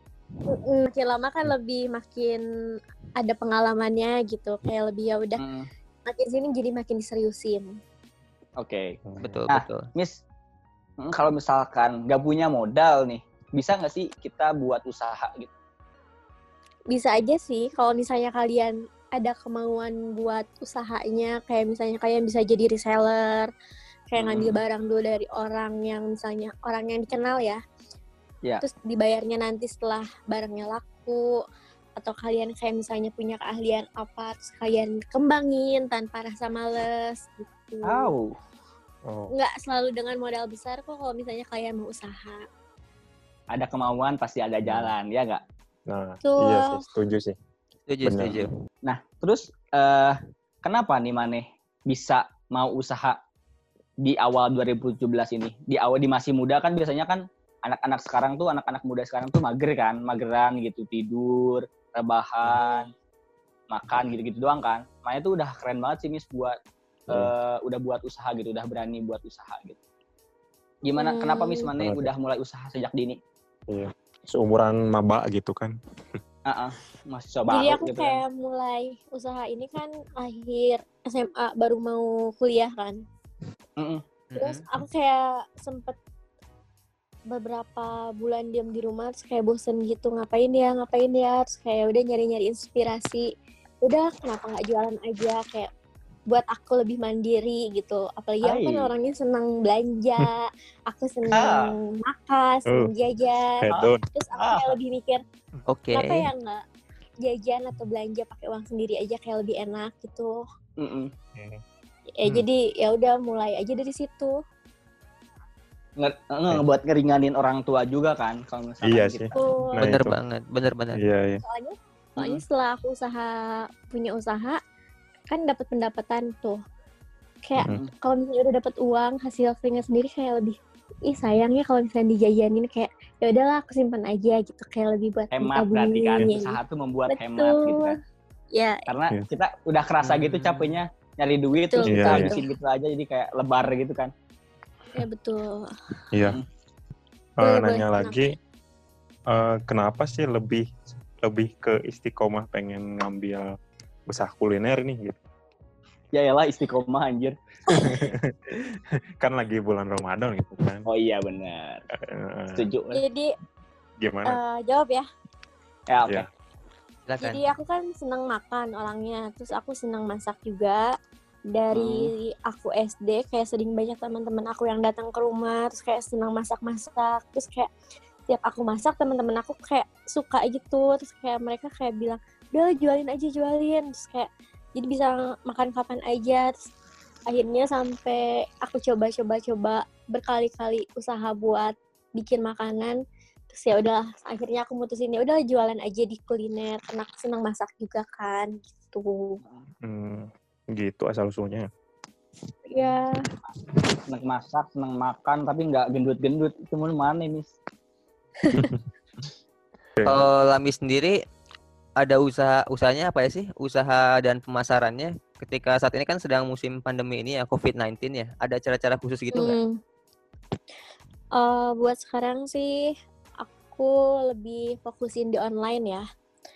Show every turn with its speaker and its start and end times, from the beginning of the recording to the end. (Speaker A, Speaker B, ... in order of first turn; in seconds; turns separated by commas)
Speaker A: 0.5-2.4, Speaker A: 3.2-5.4, Speaker B: 5.4-5.7, Speaker A: 6.1-7.7, Speaker B: 8.6-9.0, Speaker C: 9.1-9.4, Speaker D: 9.2-9.9, Speaker B: 9.5-10.2, Speaker B: 11.0-15.5, Speaker A: 16.9-23.5, Speaker A: 24.1-27.6, Speaker B: 24.2-24.6, Speaker A: 28.6-31.3, Speaker A: 32.0-38.1, Speaker B: 37.8-38.4, Speaker A: 39.3-42.4, Speaker B: 43.5-45.4, Speaker C: 44.6-44.9, Speaker C: 45.9-47.4, Speaker A: 46.2-46.8, Speaker D: 47.9-48.5, Speaker C: 48.0-48.4, Speaker B: 48.8-53.2, Speaker B: 54.0-62.9, Speaker B: 63.7-66.6, Speaker B: 67.1-69.8, Speaker B: 70.9-73.2, Speaker A: 70.9-71.7, Speaker C: 71.8-72.1, Speaker C: 73.7-76.2, Speaker B: 76.5-78.2, Speaker A: 77.5-83.0, Speaker D: 84.3-84.6, Speaker A: 84.4-86.0, Speaker A: 87.3-93.3, Speaker A: 93.8-95.7, Speaker A: 96.3-105.2, Speaker B: 98.4-98.9, Speaker B: 101.3-101.8, Speaker C: 103.6-104.0, Speaker B: 103.7-104.7, Speaker D: 105.7-106.3, Speaker A: 105.9-106.6, Speaker A: 107.2-110.4, Speaker B: 110.8-111.1, Speaker C: 111.3-111.6, Speaker A: 112.2-114.4, Speaker B: 116.0-119.4, Speaker C: 118.8-120.2, Speaker A: 119.4-119.8, Speaker D: 119.8-121.0, Speaker C: 121.0-121.4, Speaker A: 121.4-124.6, Speaker B: 122.2-122.4, Speaker A: 125.3-126.6, Speaker A: 127.5-136.6, Speaker B: 135.3-138.0, Speaker A: 137.1-137.9, Speaker A: 138.5-138.8, Speaker B: 138.9-144.1, Speaker D: 140.0-140.8, Speaker A: 141.7-142.5, Speaker C: 141.9-142.3, Speaker A: 144.9-145.7, Speaker C: 146.1-146.4, Speaker A: 147.4-148.3, Speaker C: 147.4-148.3, Speaker C: 149.3-150.7, Speaker C: 151.2-153.5, Speaker C: 154.1-155.2, Speaker B: 156.1-157.3, Speaker C: 157.7-160.9, Speaker B: 160.9-161.8, Speaker C: 161.9-162.6, Speaker B: 162.5-163.0, Speaker A: 162.9-163.3, Speaker C: 164.0-164.4, Speaker A: 164.2-165.1, Speaker B: 165.9-166.3, Speaker D: 167.1-167.4, Speaker A: 167.2-170.8, Speaker A: 171.5-177.7, Speaker B: 171.7-172.1, Speaker A: 178.3-186.6, Speaker A: 187.3-193.0, Speaker A: 193.5-199.4, Speaker B: 199.4-199.7, Speaker C: 199.8-201.7, Speaker A: 202.7-203.2, Speaker B: 204.1-207.5, Speaker C: 208.5-208.8, Speaker C: 210.0-210.2, Speaker D: 210.1-211.2, Speaker D: 212.0-219.6, Speaker A: 219.3-219.8, Speaker A: 221.4-226.0